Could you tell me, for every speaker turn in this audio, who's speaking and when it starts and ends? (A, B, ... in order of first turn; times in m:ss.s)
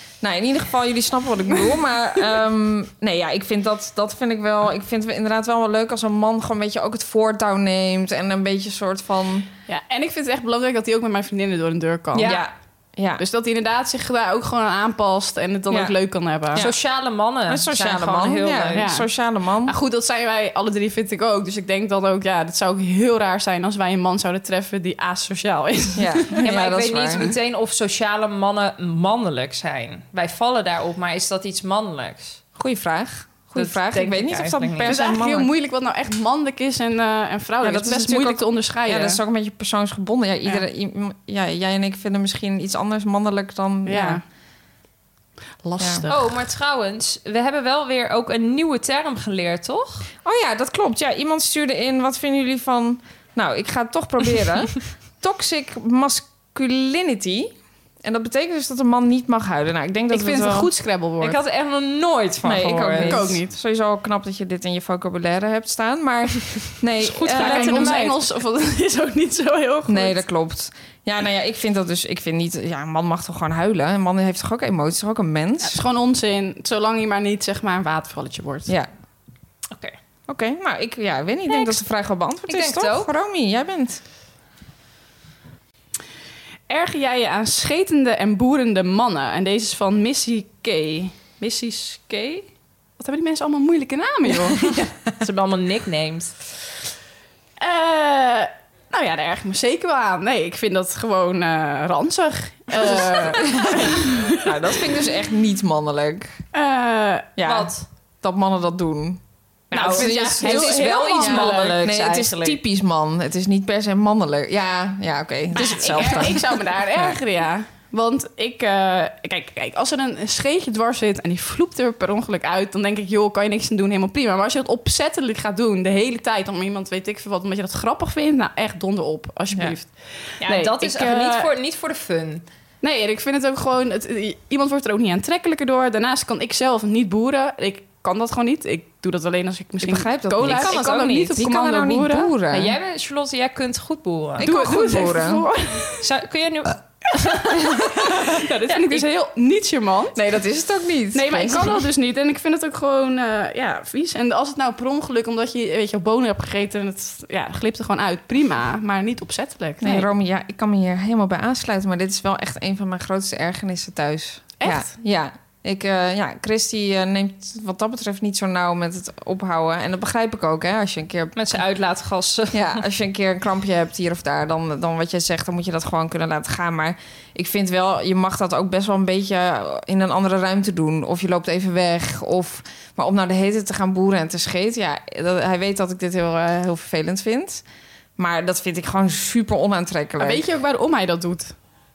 0:00.2-0:09.5 A
0:09.7-0:12.4 B
0:12.2-0:12.4 C
0:12.2-0:13.2 A
0:13.2-0:16.6 B
0:16.5-0:16.8 A
0:16.6-0:18.9 C
0:17.5-0:19.8 A
0:18.8-0:19.1 B
0:19.6-0:26.4 B
0:26.0-0:27.3 A
0:26.4-0:32.4 C
0:32.6-0:35.5 A
0:33.5-0:35.0 C
0:34.9-0:39.2 B
0:37.6-0:44.2 A
0:43.9-0:44.2 B
0:45.6-0:46.3 B
0:45.8-0:46.1 A
0:46.1-0:50.1 C
0:50.2-1:00.7 A
1:00.1-1:01.4 B
1:01.2-1:03.3 C
1:02.4-1:08.0 A
1:03.0-1:03.6 B
1:07.0-1:08.2 C
1:07.3-1:10.2 B
1:09.9-1:15.8 A
1:15.6-1:18.7 B
1:19.7-1:20.0 C
1:20.3-1:24.0 A
1:22.5-1:23.1 C
1:26.7-1:32.5 B
1:33.0-1:34.7 B
1:34.6-1:36.3 C
1:37.6-1:44.4 B
1:42.7-1:46.4 A
1:46.5-1:47.3 B
1:47.4-1:47.7 A
1:47.4-1:47.8 C
1:48.2-1:57.2 A
1:49.7-1:52.6 C
1:49.7-1:51.8 B
1:55.6-2:11.5 B
1:55.6-1:56.3 C
2:10.4-2:12.4 C
2:12.8-2:22.3 B
2:19.8-2:22.8 A
2:20.4-2:21.4 C
2:22.5-2:24.5 C
2:24.4-2:25.4 A
2:24.4-2:26.1 B
2:26.0-2:27.6 C
2:27.4-2:30.2 B
2:28.7-2:29.0 C
2:30.2-2:31.8 A
2:31.1-2:40.1 B
2:39.8-2:51.6 A
2:44.6-2:44.9 B
2:51.4-2:52.8 C
2:52.5-3:07.6 A
3:08.2-3:10.4 A
3:10.2-3:11.6 B